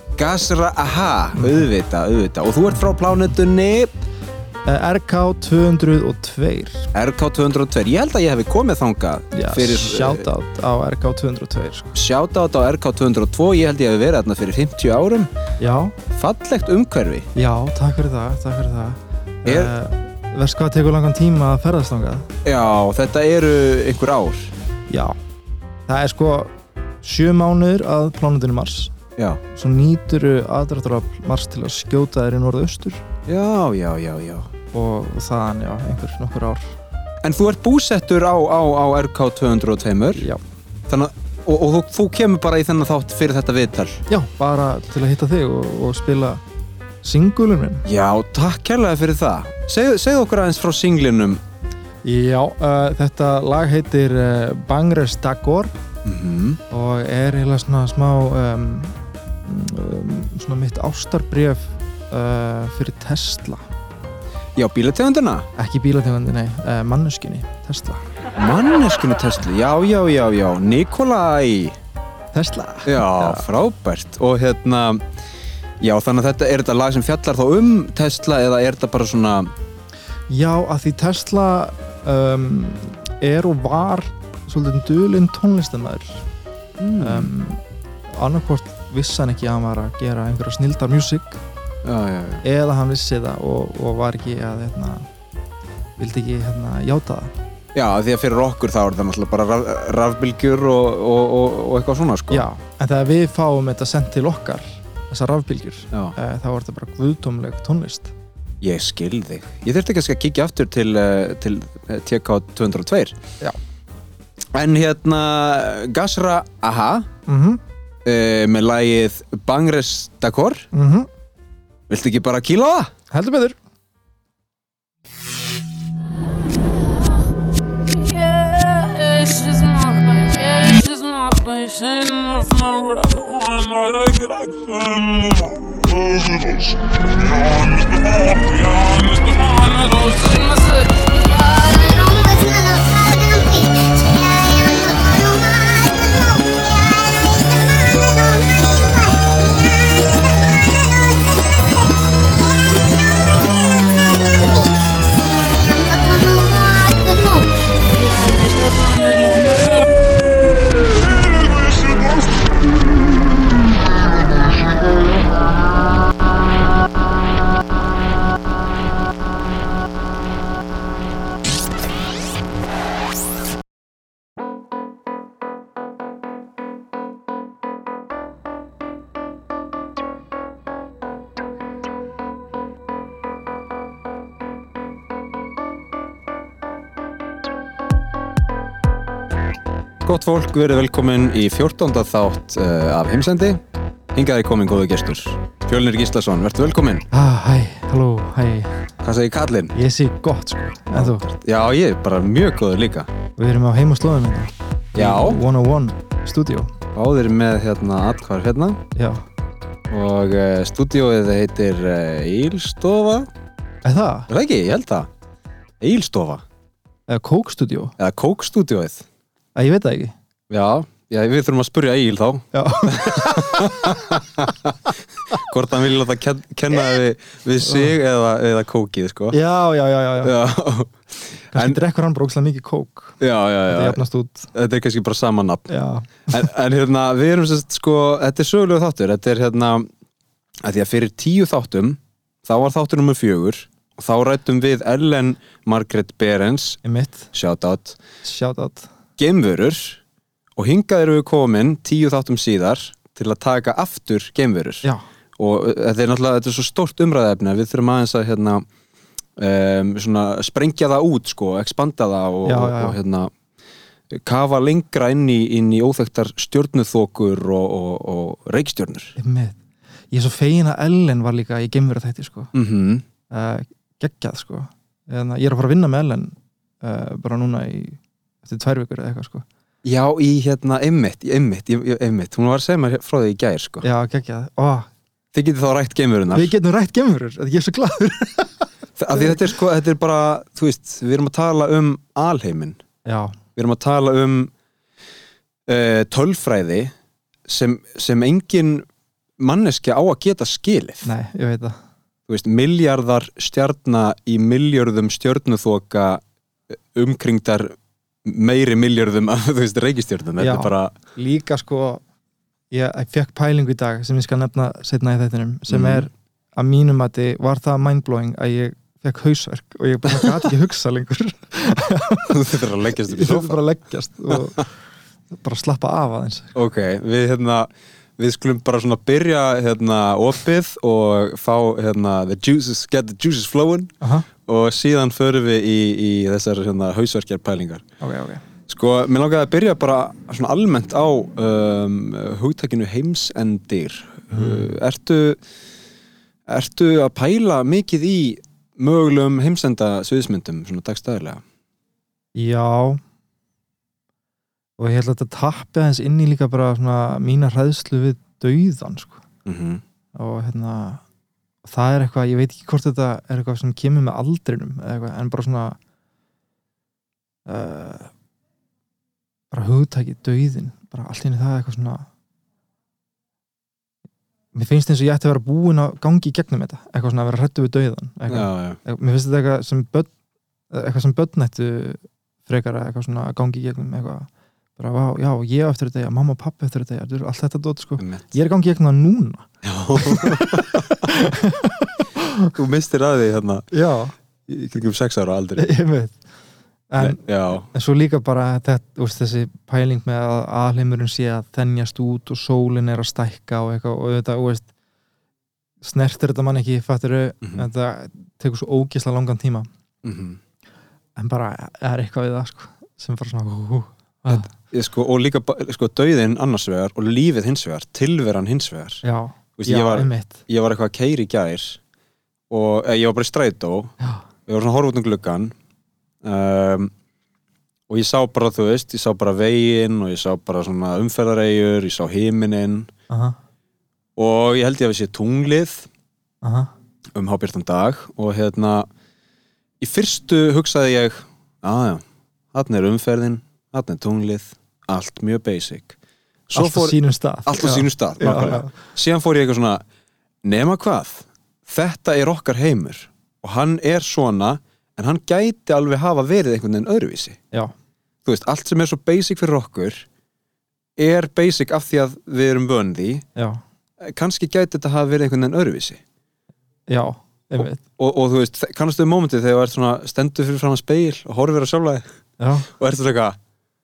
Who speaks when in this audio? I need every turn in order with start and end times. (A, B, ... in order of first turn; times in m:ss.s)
0:00.2-0:03.9 A
0:01.3-0:01.7 B
0:04.6-0:06.9 B
0:06.9-0:10.3 A
0:09.3-0:12.0 B
0:11.9-0:15.3 A
0:15.6-0:16.0 B
0:16.1-0:17.3 A
0:17.3-0:22.3 B
0:19.4-0:19.7 A
0:22.4-0:24.5 A
0:24.9-0:25.2 B
0:25.9-0:26.5 B
0:27.0-0:28.9 B
0:29.5-0:33.0 B
0:33.2-0:34.5 A
0:34.7-0:36.7 B
0:37.2-0:40.2 A
0:40.1-0:40.4 B
0:40.9-0:44.0 A
0:44.1-0:46.4 B
0:47.0-0:47.8 B
0:47.8-0:51.4 A
0:52.0-0:55.7 B
0:56.0-0:56.6 A
0:56.7-1:03.6 B
1:04.6-1:05.5 A
1:05.6-1:08.0 B
1:08.4-1:11.8 A
1:12.3-1:13.4 B
1:12.8-1:15.1 A
1:15.8-1:19.5 A
1:20.3-1:26.2 B
1:26.8-1:27.3 A
1:27.0-1:27.6 B
1:28.1-1:31.4 B
1:31.8-1:32.4 A
1:32.4-1:35.1 B
1:36.0-1:37.3 B
1:37.7-1:42.4 A
1:42.3-1:48.1 B
1:48.6-1:53.2 A
1:54.5-1:57.1 A
1:57.3-1:57.6 B
1:58.0-2:00.7 A
2:00.7-2:01.1 B
2:01.9-2:02.9 A
2:03.1-2:03.6 B
2:07.9-2:16.7 C
2:17.3-2:22.8 C
2:38.6-2:39.8 C
3:10.0-3:13.6 A
3:14.1-3:17.1 A
3:17.1-3:18.9 B
3:19.0-3:19.7 A
3:19.7-3:21.2 B
3:20.9-3:23.1 A
3:23.4-3:26.7 B
3:24.9-3:25.4 A
3:26.9-3:28.8 A
3:28.9-3:29.2 B
3:29.9-3:33.3 A
3:33.8-3:34.3 B
3:34.3-3:35.1 A
3:35.8-3:36.4 A
3:37.1-3:37.9 B
3:38.0-3:39.0 A
3:39.5-3:40.1 B
3:40.5-3:49.4 A
3:42.5-3:44.1 B
3:47.6-3:47.9 B
3:49.3-3:50.3 B
3:50.2-3:51.8 A
3:51.5-3:54.5 B
3:53.2-3:54.0 A
3:54.5-3:55.7 A
3:55.7-3:56.5 B
3:56.3-3:59.9 A
4:00.6-4:06.8 A
4:06.8-4:07.3 B
4:07.3-4:08.0 A
4:08.2-4:08.9 B
4:09.2-4:10.0 A
4:10.6-4:14.8 A
4:15.4-4:18.6 A
4:19.4-4:23.3 A
4:22.4-4:23.0 B
4:24.1-4:29.2 A
4:29.2-4:29.6 B
4:30.1-4:32.5 B
4:32.5-4:33.0 A
4:33.3-4:39.4 B
4:39.8-4:43.8 A
4:43.8-4:44.9 B
4:45.3-4:46.5 A
4:46.3-4:49.4 B
4:49.0-4:52.8 A
4:53.0-4:53.4 B
4:53.6-4:54.5 A
4:55.7-4:56.9 A
4:57.5-4:58.9 A
4:59.4-5:01.1 A
5:01.0-5:01.8 B
5:02.3-5:06.2 A
5:06.9-5:10.9 A
5:10.4-5:12.0 B
5:12.7-5:24.7 B
5:15.7-5:16.1 A
5:22.3-5:23.6 A
5:24.3-5:24.6 A
5:25.3-5:26.5 B
5:26.5-5:33.9 A
5:34.0-5:34.3 B
5:34.4-5:37.8 A
5:38.0-5:38.4 B
5:38.7-5:45.4 A
5:44.3-5:44.8 B
5:46.5-5:51.4 A
5:52.3-5:53.0 B
5:54.8-5:59.2 B
5:59.4-5:59.8 A
6:00.1-6:01.0 B
6:01.6-6:05.8 B
6:07.4-6:08.1 B
6:09.5-6:12.1 B
6:14.5-6:20.1 B
6:18.3-6:18.8 A
6:20.7-6:32.5 B
6:28.0-6:28.3 A
6:29.6-6:31.0 A
6:32.5-6:33.6 A
6:33.7-6:34.1 B
6:34.5-6:35.7 A
6:35.6-6:36.2 B
6:36.9-6:44.7 B
6:37.0-6:37.6 A
6:45.8-6:49.7 B
6:47.4-6:47.7 A
6:50.0-6:50.4 A
6:51.2-6:54.5 B
6:54.3-6:59.0 A
6:59.0-7:00.4 B
6:59.6-7:01.8 A
7:02.5-7:03.9 A
7:04.0-7:04.2 B
7:04.4-7:05.5 A
7:06.2-7:06.9 A
7:07.9-7:12.9 A
7:13.1-7:13.4 B
7:14.2-7:15.9 A
7:16.4-7:16.7 B
7:17.1-7:18.9 A
7:19.8-7:26.0 A
7:26.5-7:29.8 A
7:26.5-7:28.7 B
7:30.4-7:37.4 A
7:38.2-7:40.1 A
7:41.0-7:43.2 A
7:43.4-7:43.6 B
7:44.0-7:46.0 A
7:46.9-7:47.8 B
7:47.6-7:52.0 A
7:52.4-7:52.7 B
7:52.7-7:53.4 A